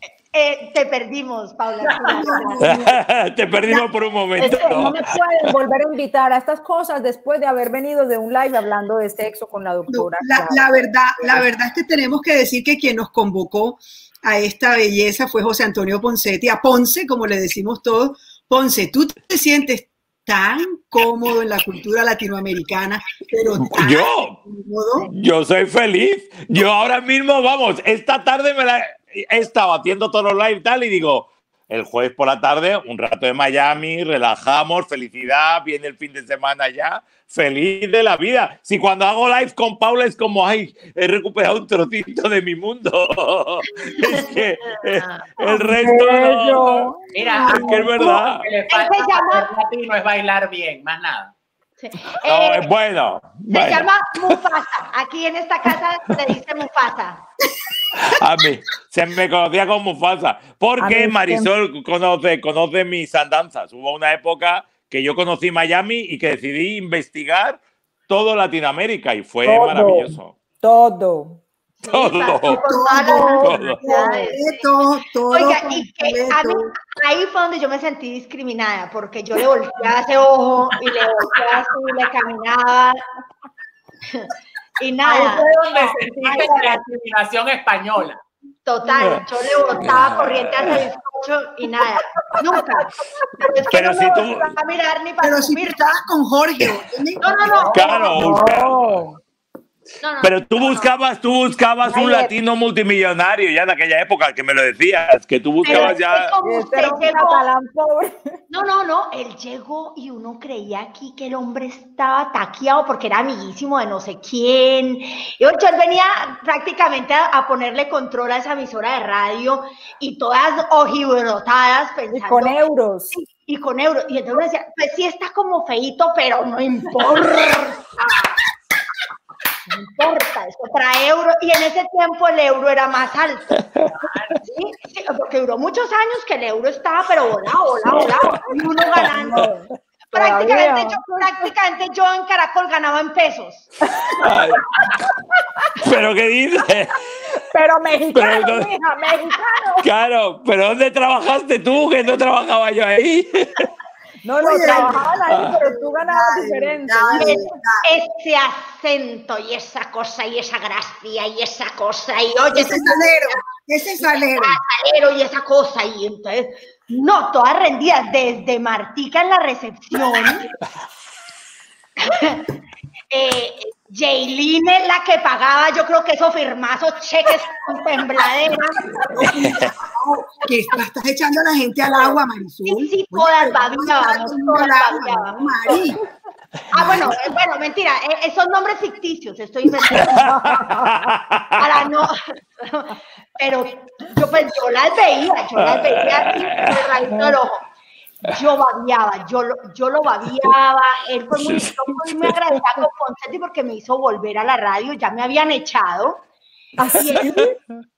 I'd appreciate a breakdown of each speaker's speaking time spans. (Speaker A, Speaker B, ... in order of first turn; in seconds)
Speaker A: 0.3-2.6, 43.8-44.2, 44.8-45.4, 48.7-49.5, 51.8-52.7, 53.5-57.2, 71.8-74.6, 75.3-83.0, 84.1-85.5, 86.3-86.6, 88.7-95.9, 97.2-98.2, 100.0-100.9, 105.6-107.4, 108.5-122.6, 123.1-128.3, 129.7-133.6, 134.4-139.5, 140.1-143.7, 157.1-163.4, 164.0-170.5, 172.0-172.5, 173.1-179.2, 182.6-185.8, 186.7-190.5, 191.6-197.6, 198.2-206.2, 206.9-207.4
Speaker B: 2.1-2.9, 9.9-25.1, 47.4-48.2, 72.5-76.8, 95.2-97.7, 154.4-157.8, 162.5-164.6, 179.0-186.0
Speaker C: 2.6-5.0, 23.6-24.4, 25.1-48.5, 52.1-54.4, 57.9-70.3, 71.9-72.6, 73.4-73.8, 89.8-90.8, 93.7-94.5, 97.7-99.0, 100.2-106.3, 133.6-133.8, 137.9-139.5, 144.0-144.6, 145.8-147.1, 148.1-148.8, 149.8-153.7, 179.3-179.7, 186.8-187.1, 189.9-191.7, 195.6-197.3, 201.3-202.3, 206.9-207.5
Speaker D: 4.4-10.7, 45.5-47.0, 60.8-61.5, 69.4-71.4, 85.2-86.8, 98.0-99.2, 101.8-102.3, 105.7-108.4, 122.1-123.2, 139.0-141.4, 144.0-145.7, 147.5-149.9, 154.2-157.5, 190.0-191.2, 206.8-207.6
Speaker E: 47.1-51.3, 81.2-81.5, 85.0-88.2, 97.4-98.5, 133.8-134.4